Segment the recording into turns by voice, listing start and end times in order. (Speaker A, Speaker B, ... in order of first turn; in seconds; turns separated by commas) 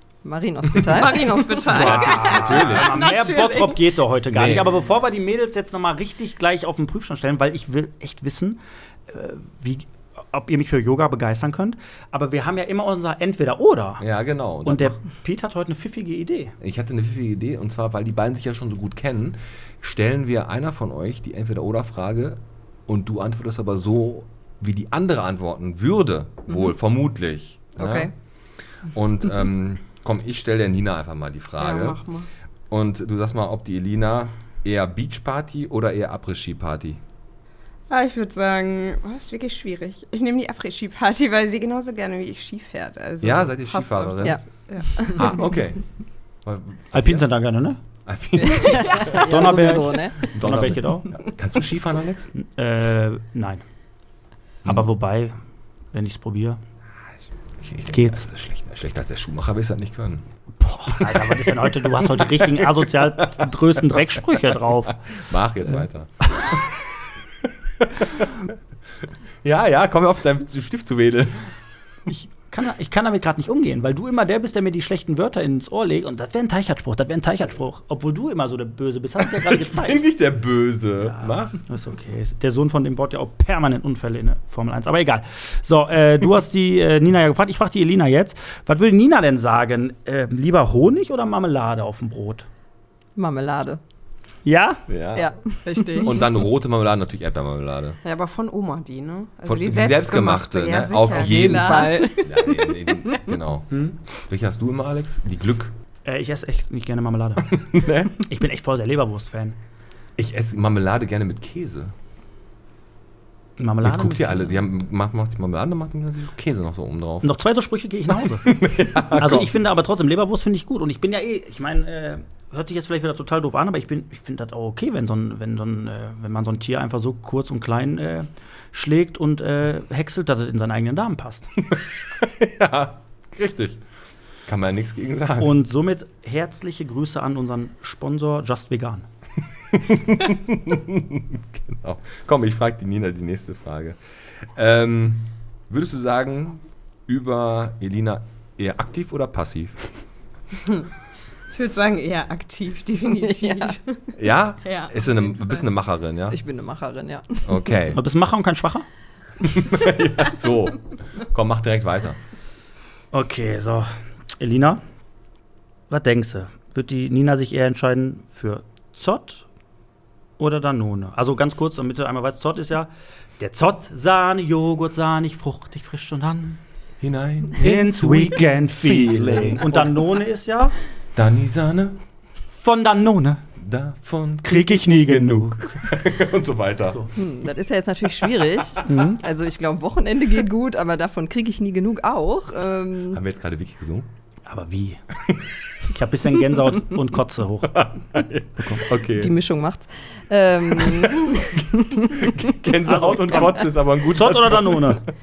Speaker A: 0.2-1.7, Speaker B: 0.7-4.0, Speaker C: 1.7-14.0, Speaker D: 1.7-3.1, Speaker D: 4.3-4.9, Speaker D: 14.0-15.0, Speaker C: 14.6-16.5, Speaker D: 16.6-28.1, Speaker A: 27.8-28.1, Speaker D: 28.9-32.0, Speaker B: 31.6-32.3, Speaker D: 32.7-37.0, Speaker B: 37.9-45.3, Speaker D: 43.2-44.4, Speaker A: 44.9-45.3, Speaker D: 45.1-45.9, Speaker D: 46.4-47.3, Speaker C: 46.9-47.8, Speaker D: 48.1-52.3, Speaker A: 48.4-50.3, Speaker B: 48.6-49.2, Speaker C: 49.3-51.1, Speaker C: 52.4-53.6, Speaker C: 54.6-55.4, Speaker C: 55.9-56.6, Speaker D: 57.6-60.2, Speaker C: 57.9-58.2, Speaker C: 60.6-65.0, Speaker D: 60.9-66.6, Speaker D: 67.4-68.5, Speaker D: 69.4-71.5, Speaker C: 72.1-80.0, Speaker D: 79.2-81.6, Speaker C: 81.0-92.5, Speaker A: 93.2-93.8, Speaker C: 94.5-94.9, Speaker D: 94.9-95.4, Speaker A: 95.1-96.3, Speaker D: 96.0-98.0, Speaker B: 98.0-102.3, Speaker D: 99.5-105.7, Speaker A: 101.1-102.7, Speaker C: 103.7-104.0, Speaker C: 106.0-107.6, Speaker D: 107.6-108.1, Speaker C: 108.2-109.6, Speaker D: 110.2-111.9, Speaker C: 113.6-114.6, Speaker D: 113.8-117.3, Speaker C: 117.2-118.5, Speaker D: 118.4-119.5, Speaker C: 119.1-131.5, Speaker D: 131.7-133.8, Speaker D: 134.5-135.6, Speaker C: 135.4-139.1, Speaker D: 139.7-149.8, Speaker B: 151.5-154.1, Speaker A: 153.2-153.8, Speaker D: 154.2-156.4, Speaker B: 154.6-155.6, Speaker A: 156.3-157.8, Speaker D: 157.4-158.0, Speaker C: 157.9-158.9, Speaker D: 159.4-162.2, Speaker C: 163.1-164.8, Speaker C: 165.9-169.5, Speaker C: 170.4-176.6, Speaker D: 177.0-180.0, Speaker C: 177.6-180.8, Speaker D: 181.2-182.0, Speaker C: 182.5-183.4, Speaker D: 183.6-187.0, Speaker C: 184.4-185.8, Speaker A: 187.2-193.2, Speaker C: 188.8-189.2, Speaker D: 193.1-194.1, Speaker C: 194.5-195.0, Speaker C: 195.9-198.0, Speaker D: 197.7-199.3, Speaker C: 198.6-198.8, Speaker A: 199.2-202.5, Speaker D: 200.7-205.1, Speaker C: 202.8-205.0